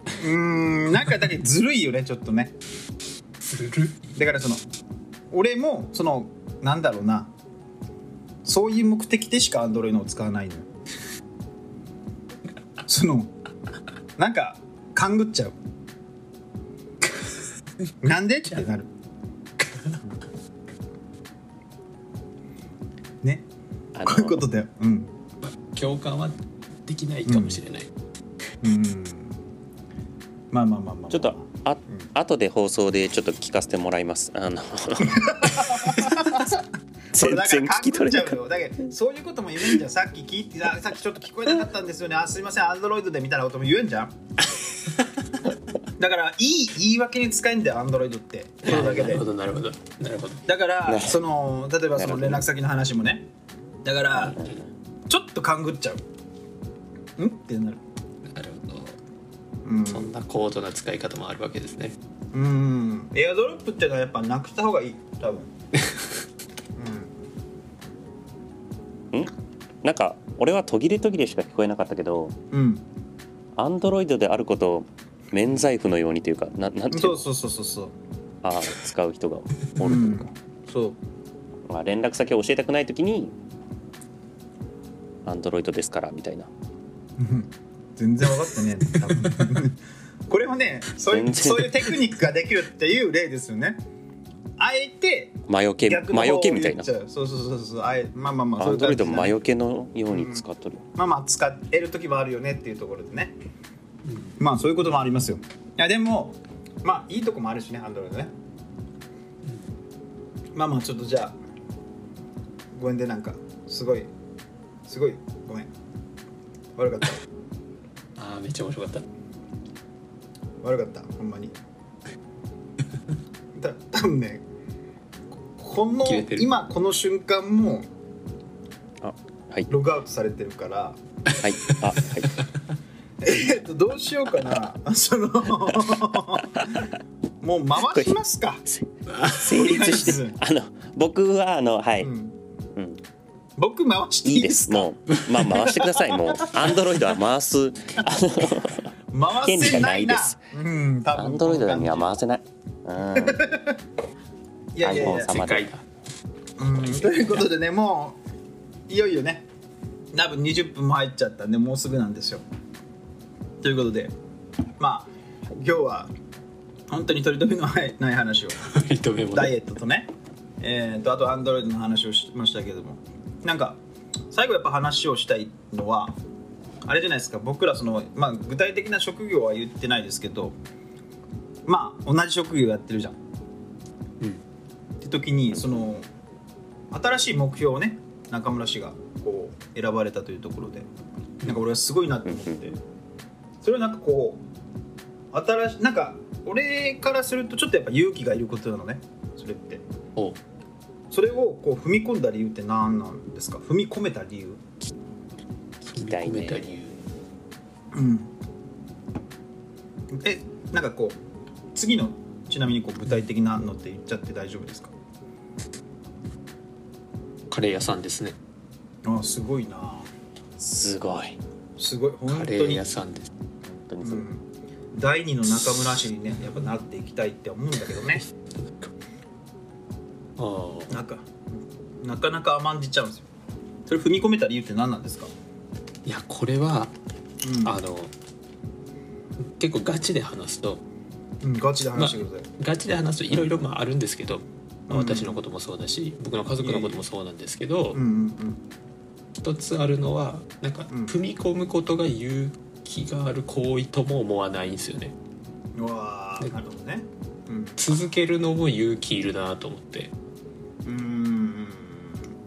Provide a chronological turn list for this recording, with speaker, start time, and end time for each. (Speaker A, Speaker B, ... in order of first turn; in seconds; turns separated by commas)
Speaker A: 0.2-2.5, Speaker B: 3.5-4.0, Speaker A: 4.2-4.6, Speaker A: 5.3-7.3, Speaker A: 8.4-10.7, Speaker A: 12.9-13.3, Speaker A: 14.2-15.6, Speaker A: 18.0-18.9, Speaker B: 19.6-20.0, Speaker C: 23.9-24.4, Speaker A: 24.0-25.1, Speaker B: 25.4-27.9, Speaker A: 27.3-27.6, Speaker A: 28.6-29.4, Speaker A: 30.5-32.1, Speaker C: 31.1-36.5, Speaker A: 35.1-36.6, Speaker C: 37.1-38.4, Speaker A: 37.1-44.1, Speaker A: 46.0-49.2, Speaker B: 48.6-50.4, Speaker A: 50.5-53.3, Speaker C: 50.9-51.2, Speaker C: 51.9-52.5, Speaker A: 53.8-54.4, Speaker C: 54.1-54.7, Speaker A: 55.1-56.0, Speaker A: 57.2-57.8, Speaker B: 58.3-58.9, Speaker A: 59.6-60.1, Speaker B: 59.9-62.0, Speaker A: 62.3-65.5, Speaker A: 66.8-67.1, Speaker C: 69.1-72.3, Speaker A: 72.5-72.8, Speaker C: 73.5-77.2, Speaker A: 76.9-77.9, Speaker C: 78.4-80.3, Speaker A: 79.8-81.0, Speaker C: 81.7-83.3, Speaker C: 85.2-86.5, Speaker A: 87.2-93.8, Speaker C: 91.1-91.9, Speaker A: 94.6-99.4, Speaker C: 95.5-96.9, Speaker C: 98.6-100.8, Speaker A: 100.1-100.4, Speaker A: 101.0-103.3, Speaker B: 104.0-104.4, Speaker A: 104.4-108.3, Speaker A: 110.5-111.3, Speaker A: 112.7-114.1, Speaker A: 114.8-115.7, Speaker A: 116.8-117.2, Speaker B: 118.2-119.0, Speaker A: 120.6-121.5, Speaker A: 123.5-124.4, Speaker A: 125.5-127.9, Speaker B: 126.0-126.5, Speaker C: 129.0-129.7, Speaker A: 129.7-131.0, Speaker C: 131.4-132.4, Speaker A: 133.2-136.7, Speaker C: 135.7-136.9, Speaker A: 137.4-138.6, Speaker C: 137.9-142.1, Speaker B: 139.1-139.4, Speaker A: 139.4-140.3, Speaker A: 142.0-142.4, Speaker C: 142.7-143.0, Speaker A: 143.6-146.6, Speaker C: 144.2-150.4, Speaker A: 149.1-152.1, Speaker C: 151.1-153.6, Speaker A: 153.1-153.8, Speaker A: 154.7-155.4, Speaker C: 154.8-155.7, Speaker B: 154.9-155.8, Speaker A: 156.6-158.2, Speaker B: 156.7-157.5, Speaker A: 158.9-159.4, Speaker A: 160.1-162.4, Speaker A: 163.6-164.1, Speaker A: 164.8-166.1, Speaker A: 166.9-168.7, Speaker B: 168.6-169.5, Speaker A: 169.3-170.1, Speaker A: 170.6-173.8, Speaker A: 174.3-176.2, Speaker A: 176.8-180.6, Speaker A: 181.7-183.2, Speaker A: 185.0-186.1, Speaker C: 185.5-185.9, Speaker A: 186.9-190.9, Speaker A: 191.4-192.8, Speaker C: 192.3-192.7, Speaker A: 193.6-194.4, Speaker A: 195.3-199.8, Speaker A: 201.1-204.6, Speaker C: 205.8-206.7, Speaker B: 205.9-207.0, Speaker A: 207.9-208.3, Speaker A: 210.1-211.2, Speaker A: 211.7-214.9, Speaker B: 217.5-218.3, Speaker A: 219.0-220.1, Speaker C: 220.6-221.4, Speaker A: 221.8-222.8, Speaker B: 222.3-223.3, Speaker C: 223.6-224.2, Speaker A: 224.0-224.4, Speaker A: 224.9-228.2, Speaker B: 228.1-228.9, Speaker B: 230.4-231.0, Speaker A: 230.9-233.2, Speaker A: 233.9-235.3, Speaker B: 236.1-236.9, Speaker A: 237.4-237.8, Speaker B: 237.6-238.1, Speaker B: 239.4-240.8, Speaker A: 241.4-242.5, Speaker B: 241.9-248.0, Speaker A: 244.9-245.4, Speaker A: 246.6-247.0, Speaker A: 247.9-248.6, Speaker B: 249.4-255.1, Speaker A: 250.9-251.2, Speaker A: 255.8-257.9, Speaker B: 257.8-260.1, Speaker A: 260.8-262.2